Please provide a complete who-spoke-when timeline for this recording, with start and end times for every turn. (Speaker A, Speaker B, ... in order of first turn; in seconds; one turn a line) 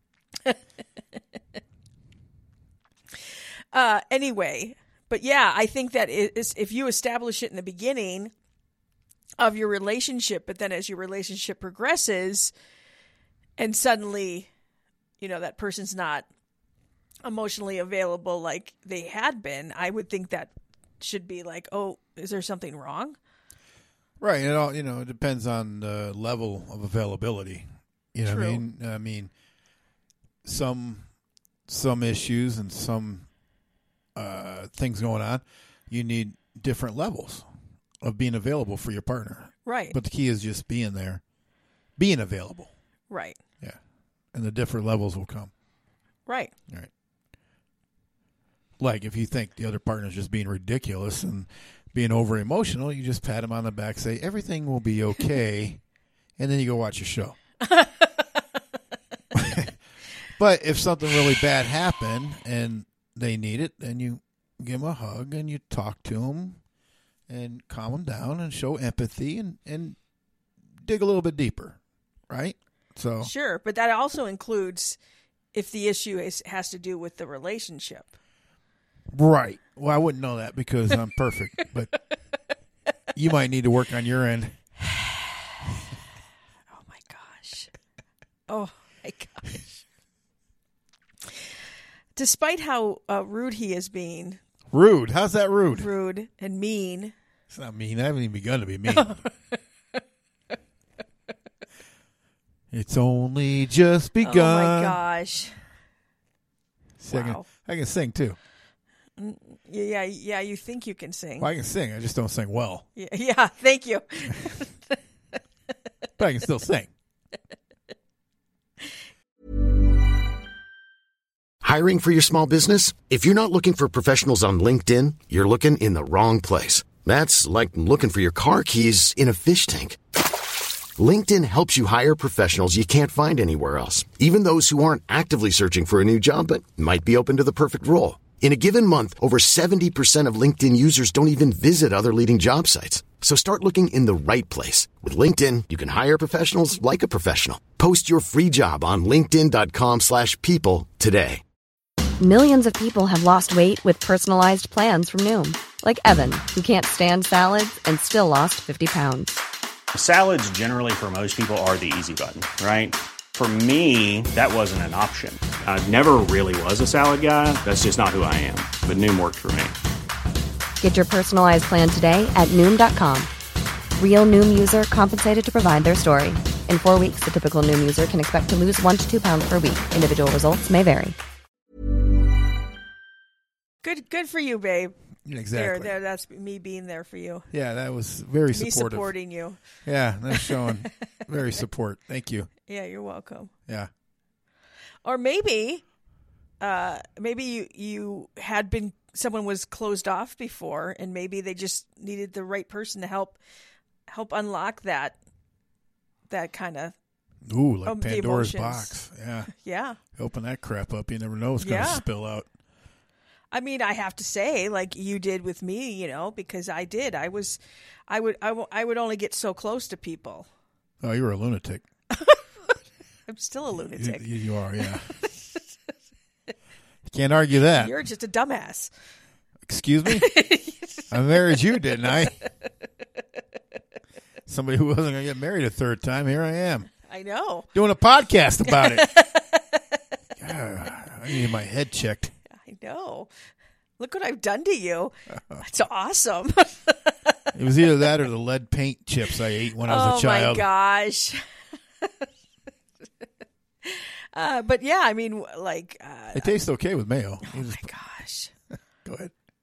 Speaker A: 3.7-8.3
Speaker A: 9.4-12.5
Speaker A: 13.6-14.5
Speaker A: 15.2-16.3
Speaker A: 17.2-23.2
Speaker B: 24.2-29.3
Speaker A: 28.2-28.6
Speaker B: 30.4-31.1
Speaker B: 31.7-33.3
Speaker B: 34.1-37.5
Speaker B: 38.0-41.2
Speaker A: 39.6-40.0
Speaker B: 42.0-42.7
Speaker A: 43.1-43.4
Speaker B: 44.3-45.5
Speaker A: 46.3-46.5
Speaker B: 48.8-55.8
Speaker B: 56.4-57.4
Speaker A: 57.6-58.2
Speaker B: 59.3-59.7
Speaker B: 60.4-66.6
Speaker B: 67.3-70.0
Speaker B: 70.8-73.3
Speaker A: 73.2-75.0
Speaker A: 75.5-78.1
Speaker B: 79.1-81.9
Speaker B: 83.1-84.6
Speaker A: 84.9-85.3
Speaker A: 86.7-87.7
Speaker A: 88.5-89.8
Speaker A: 92.2-94.4
Speaker B: 94.7-95.9
Speaker A: 95.7-97.1
Speaker B: 97.5-99.2
Speaker A: 98.9-99.3
Speaker B: 102.7-105.0
Speaker A: 104.2-105.6
Speaker B: 107.0-108.4
Speaker A: 107.1-107.5
Speaker A: 109.2-111.5
Speaker B: 111.4-112.8
Speaker A: 113.0-114.9
Speaker B: 116.2-116.9
Speaker C: 121.6-130.0
Speaker C: 131.0-151.4
Speaker D: 152.2-159.4
Speaker E: 159.9-169.8
Speaker D: 170.8-173.3
Speaker D: 174.0-181.1
Speaker A: 183.8-184.9
Speaker B: 185.2-185.9
Speaker A: 185.5-187.5
Speaker B: 187.5-189.1
Speaker A: 188.5-189.6
Speaker B: 189.8-192.5
Speaker A: 190.3-190.7
Speaker A: 192.7-193.5
Speaker A: 195.0-195.8
Speaker A: 196.6-203.4
Speaker A: 204.1-205.2
Speaker A: 206.3-206.9
Speaker B: 207.4-209.5
Speaker A: 207.8-208.9
Speaker A: 209.5-210.0
Speaker B: 210.1-212.5
Speaker A: 211.6-212.0
Speaker A: 213.5-220.5
Speaker B: 221.0-221.8
Speaker A: 222.1-222.7
Speaker A: 223.3-224.3
Speaker B: 223.9-225.1
Speaker B: 227.1-227.9
Speaker A: 227.7-228.9
Speaker B: 229.7-230.3
Speaker A: 230.1-231.1
Speaker B: 231.1-232.3
Speaker B: 234.5-236.9
Speaker A: 237.0-237.7
Speaker B: 237.7-239.1
Speaker A: 238.7-239.8
Speaker B: 240.4-242.3
Speaker A: 242.5-243.3
Speaker A: 244.0-247.3
Speaker B: 247.5-250.7
Speaker A: 249.8-251.4
Speaker A: 252.0-252.3
Speaker A: 253.8-256.6
Speaker B: 256.3-257.9
Speaker A: 257.4-258.5
Speaker B: 259.0-259.3